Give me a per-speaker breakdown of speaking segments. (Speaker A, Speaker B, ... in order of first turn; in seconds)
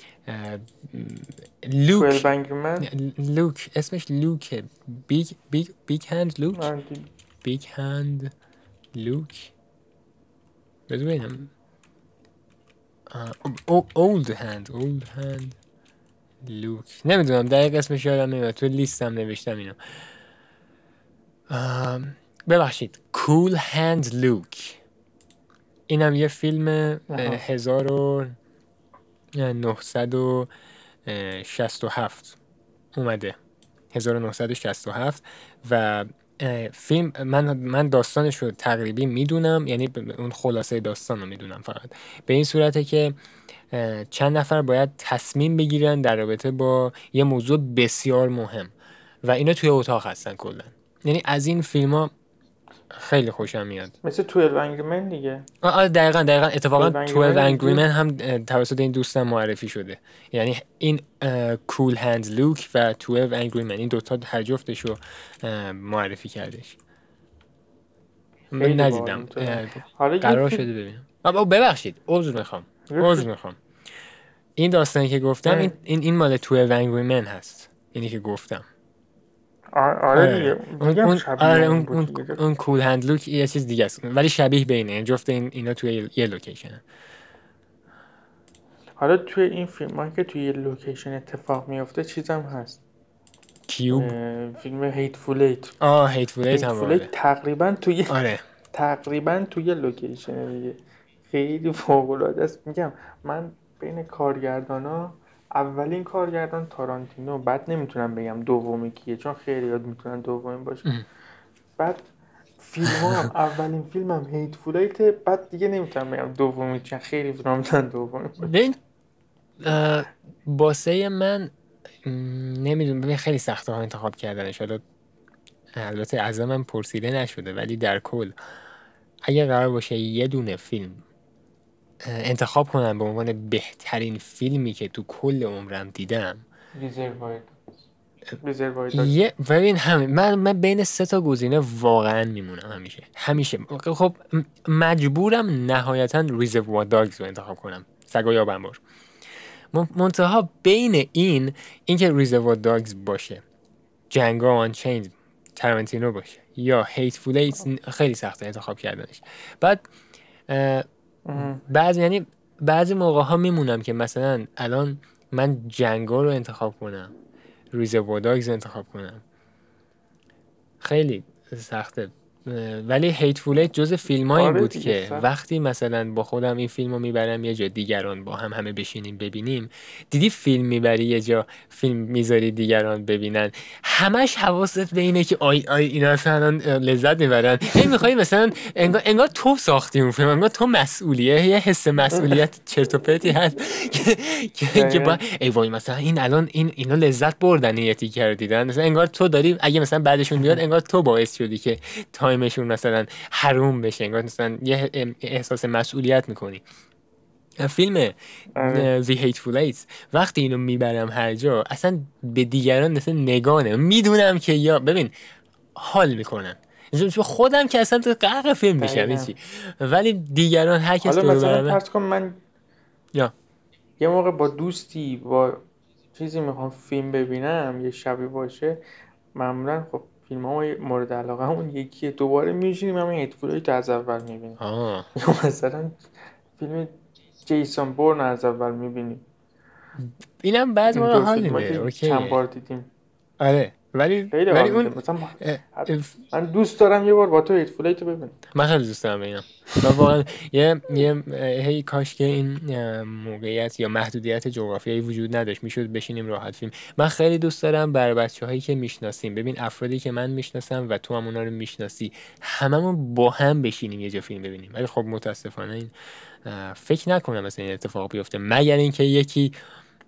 Speaker A: 0.3-2.2, 2.8-6.7, 7.4-8.3, 8.9-9.5, 10.9-11.5, 13.1-15.6, 16.4-19.8, 21.5-24.8, 25.9-28.4, 29.3-30.5, 31.1-32.4, 33.0-33.4, 33.9-43.1, 43.7-48.7, 49.2-52.1, 52.9-53.9, 55.6-66.8, 68.5-73.6, 74.6-78.7, 80.1-86.8, 93.7-94.1, 95.8-97.1, 98.1-98.4, 112.9-113.3, 118.4-118.8, 119.6-121.5, 122.0-124.8, 125.8-128.3, 129.2-131.0, 132.0-136.4, 138.9-148.8, 149.7-153.4, 154.1-159.8, 160.5-167.1, 167.7-169.2, 170.8-206.6, 207.6-215.1, 215.7-221.8, 234.6-235.1, 240.0-242.4, 243.4-246.1, 248.5-265.9, 266.4-269.6
Speaker B: 2.0-2.9, 6.5-7.1, 27.1-27.4, 54.0-55.5, 56.8-57.8, 68.6-70.7, 72.9-73.3, 75.5-75.7, 79.7-82.4, 89.0-92.8, 93.9-95.7, 96.5-98.2, 98.7-110.9, 111.8-112.1, 112.6-118.5, 136.7-137.6, 138.4-139.2, 161.3-161.6, 174.3-175.3, 194.7-195.2, 208.6-208.9, 218.8-219.3, 221.0-222.4, 224.0-228.8, 229.3-234.6, 235.1-239.2, 240.9-242.9, 244.3-248.4